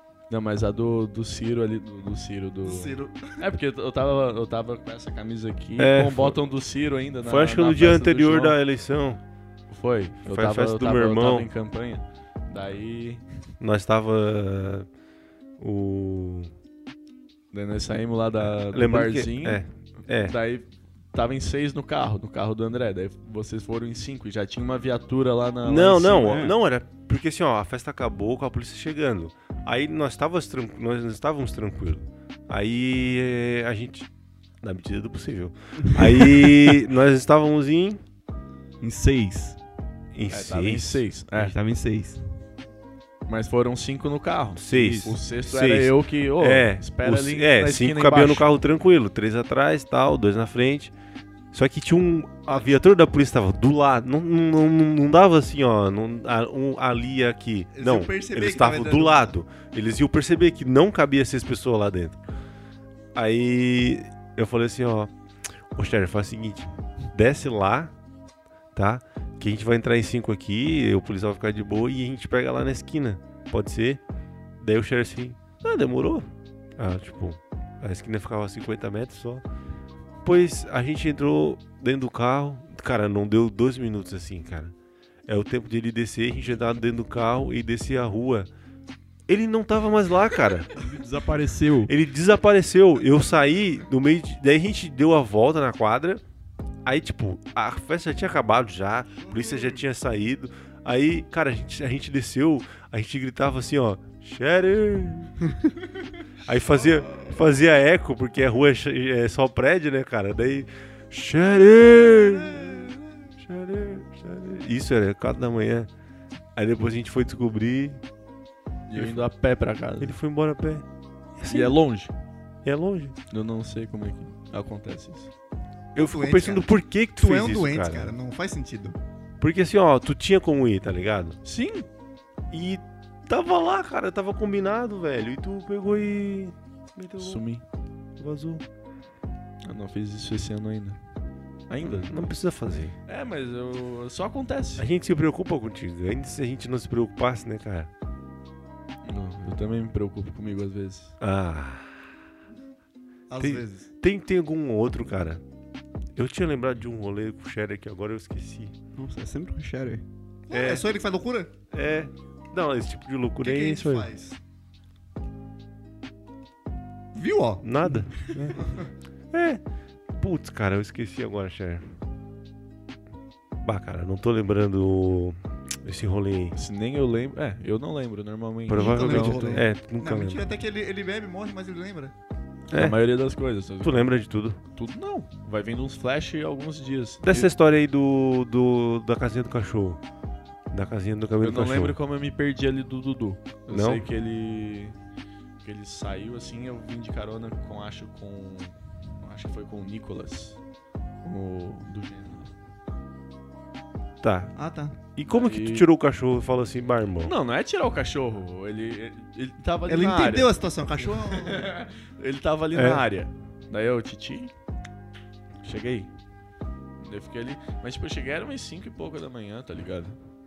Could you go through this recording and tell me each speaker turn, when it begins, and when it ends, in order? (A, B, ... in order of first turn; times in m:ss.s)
0:00.3-0:08.6 A
0:02.6-0:03.4 B
0:05.8-0:06.4 C
0:07.2-0:09.2 C
0:09.7-0:13.2 A
0:10.2-0:11.5 C
0:13.6-0:14.9 C
0:15.6-0:16.5 C
0:17.5-0:26.4 A
0:18.4-0:20.4 C
0:25.6-0:34.1 C
0:26.2-0:26.5 D
0:34.6-0:38.0 C
0:35.9-0:36.7 D
0:38.8-0:39.6 D
0:40.1-0:41.0 C
0:40.3-0:41.6 A
0:41.4-0:42.2 D
0:43.3-0:48.5 A
0:44.6-0:50.9 C
0:44.7-0:45.2 D
0:51.5-1:02.2 C
0:57.7-0:59.4 B
1:03.2-1:05.1 C
1:05.7-1:07.9 C
1:08.8-1:14.0 C
1:14.6-1:19.4 C
1:20.2-1:24.7 C
1:25.3-1:28.5 C
1:29.3-1:30.7 C
1:30.7-1:31.9 D
1:31.8-1:36.2 C
1:36.8-1:45.4 C
1:39.2-1:39.8 B
1:46.4-1:55.9 C
1:46.7-1:47.4 B
1:51.6-1:53.3 B
1:56.6-1:58.0 C
1:58.9-2:00.2 A
1:58.9-1:59.2 C
2:00.0-2:00.8 C
2:01.4-2:01.8 C
2:01.5-2:02.1 A
2:02.6-2:03.2 C
2:03.3-2:05.3 A
2:06.0-2:08.1 C
2:06.0-2:09.0 B
2:09.4-2:11.4 C
2:11.4-2:11.9 A
2:12.5-2:17.4 C
2:17.2-2:17.6 A
2:18.2-2:18.6 C
2:19.7-2:21.0 A
2:21.7-2:22.3 A
2:21.8-2:22.9 C
2:23.1-2:24.9 A
2:24.8-2:27.9 C
2:29.0-2:31.2 A
2:31.2-2:32.0 C
2:33.3-2:33.9 B
2:33.4-2:35.4 C
2:36.2-2:38.7 C
2:39.0-2:40.0 D
2:40.5-2:41.5 B
2:40.5-2:40.8 C
2:41.7-2:44.1 C
2:43.4-2:44.4 B
2:47.1-2:48.8 B
2:47.6-2:48.7 C
2:49.3-2:52.0 C
2:53.6-2:56.6 C
2:56.5-2:59.6 A
2:58.7-3:00.4 C
2:58.7-3:02.1 B
3:02.7-3:03.0 C
3:02.7-3:04.1 A
3:03.8-3:04.6 C
3:04.7-3:07.5 A
3:07.2-3:10.0 C
3:10.7-3:12.0 C
3:11.4-3:15.0 A
3:13.7-3:14.0 C
3:15.6-3:20.6 A
3:21.2-3:22.5 A
3:24.2-3:24.5 C
3:24.6-3:25.0 B
3:25.2-3:27.3 C
3:25.3-3:25.9 A
3:27.2-3:34.5 A
3:29.9-3:31.7 B
3:32.8-3:33.0 C
3:35.6-3:36.1 A
3:37.0-3:40.2 A